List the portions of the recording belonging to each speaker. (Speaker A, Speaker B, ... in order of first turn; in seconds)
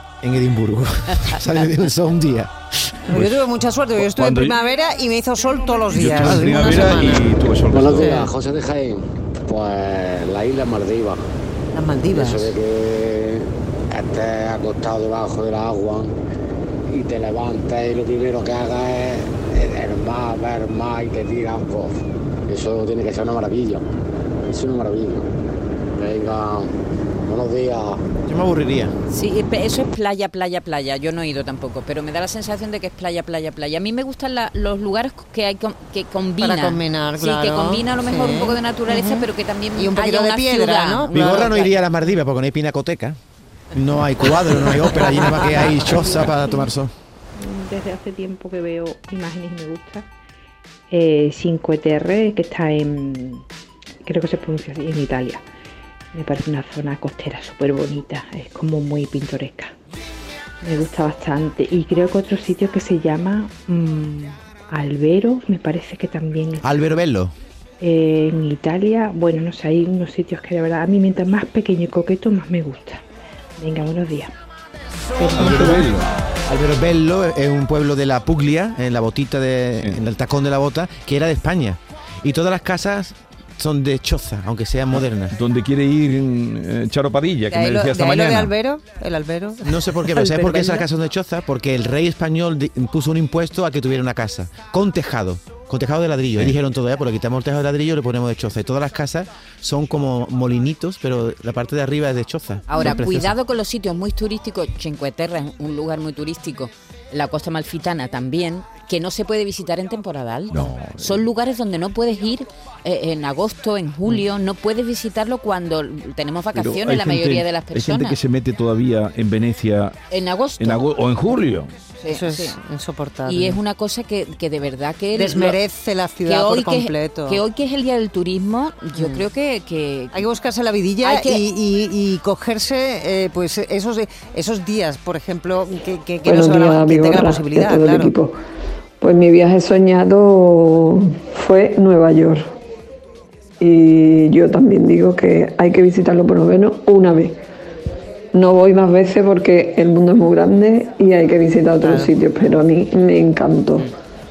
Speaker A: 0.2-3.1, 28.2-28.9, 41.1-43.1, 43.7-46.9, 66.6-67.3, 75.3-85.3, 89.6-103.3
Speaker B: 3.1-8.3, 11.7-12.6, 36.4-41.8, 44.6-45.5, 87.5-90.9, 122.1-123.6, 125.1-127.4, 128.9-129.3, 130.1-138.2, 151.7-152.2
Speaker C: 3.1-3.4, 4.0-4.6, 5.9-8.1, 84.9-88.5, 110.5-111.2, 116.5-120.0, 120.6-121.7
Speaker D: 7.7-11.3, 12.1-16.1, 16.9-23.8, 24.5-25.3, 25.9-28.0
Speaker E: 29.1-41.3, 102.7-118.2, 120.1-120.8, 122.0-122.6, 123.2-125.6, 126.2-130.2, 131.0-131.4
Speaker F: 45.7-46.7, 47.4-50.1, 50.9-53.4, 54.0-55.4, 56.1-59.7, 60.6-66.7, 67.8-73.0, 73.6-74.3, 75.2-75.9
Speaker G: 136.2-138.3, 139.0-142.5, 143.6-147.4, 148.3-153.9